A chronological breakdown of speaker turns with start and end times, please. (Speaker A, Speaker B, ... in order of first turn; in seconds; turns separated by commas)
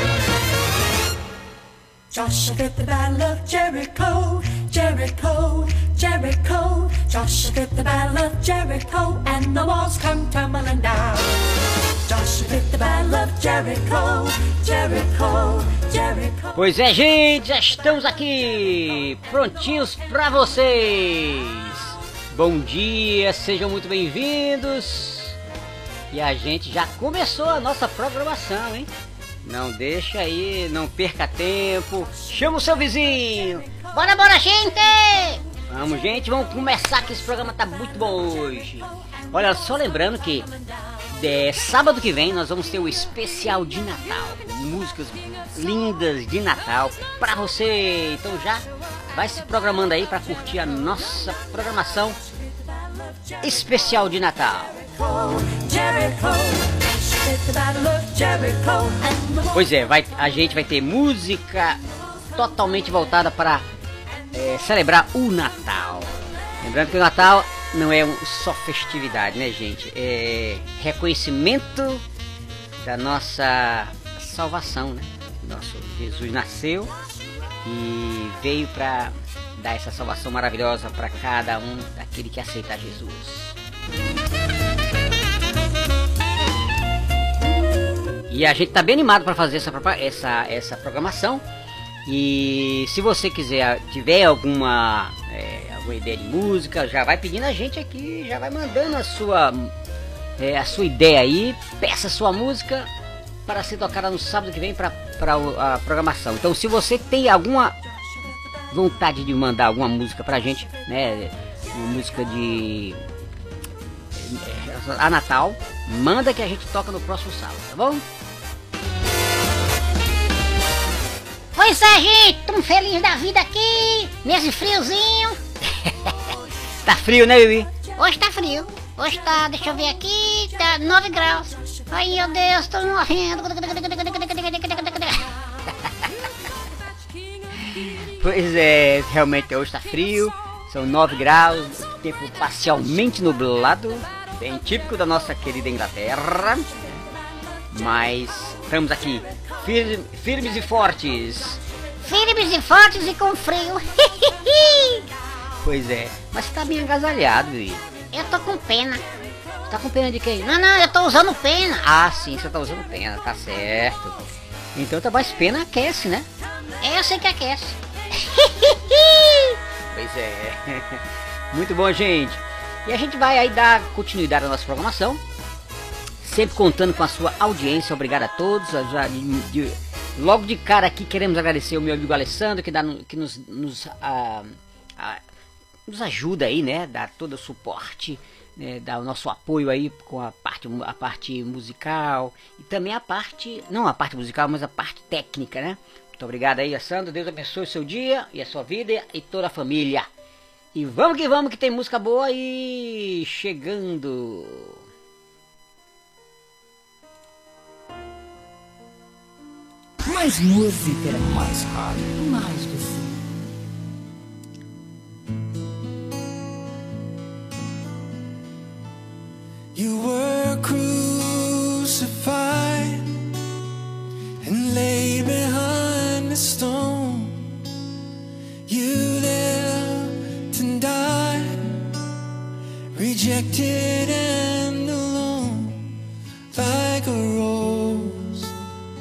Speaker A: 2.1-11.4, Speaker A: 12.1-16.6, Speaker B: 16.5-25.4, Speaker B: 26.1-28.9, Speaker B: 29.4-33.7, Speaker C: 33.8-35.4, Speaker B: 35.7-40.5, Speaker B: 41.1-52.2, Speaker B: 53.4-54.8, Speaker A: 55.0-59.4, Speaker B: 59.5-61.8, Speaker B: 62.3-63.6, Speaker B: 64.3-72.0, Speaker B: 72.8-76.9, Speaker B: 77.6-83.6, Speaker B: 88.3-91.4, Speaker B: 92.0-99.7, Speaker B: 100.4-102.9, Speaker B: 103.5-107.8, Speaker B: 108.7-113.0, Speaker B: 114.2-118.0, Speaker C: 121.5-125.4, Speaker B: 125.8-126.1, Speaker B: 126.8-127.7, Speaker C: 127.9-135.3, Speaker B: 137.8-146.7, Speaker B: 147.7-151.6, Speaker C: 152.0-155.0, Speaker B: 155.6-157.8, Speaker C: 158.1-159.0, Speaker B: 159.7-160.3, Speaker C: 160.3-161.9, Speaker B: 161.8-164.2, Speaker B: 164.7-166.3, Speaker C: 166.8-169.5, Speaker B: 169.9-175.2, Speaker B: 176.2-185.2, Speaker B: 185.9-200.1, Speaker B: 200.7-204.8, Speaker D: 210.0-213.2, Speaker E: 219.7-223.2, Speaker E: 224.4-227.6, Speaker E: 228.7-231.9, Speaker E: 232.9-235.9, Speaker E: 236.5-238.5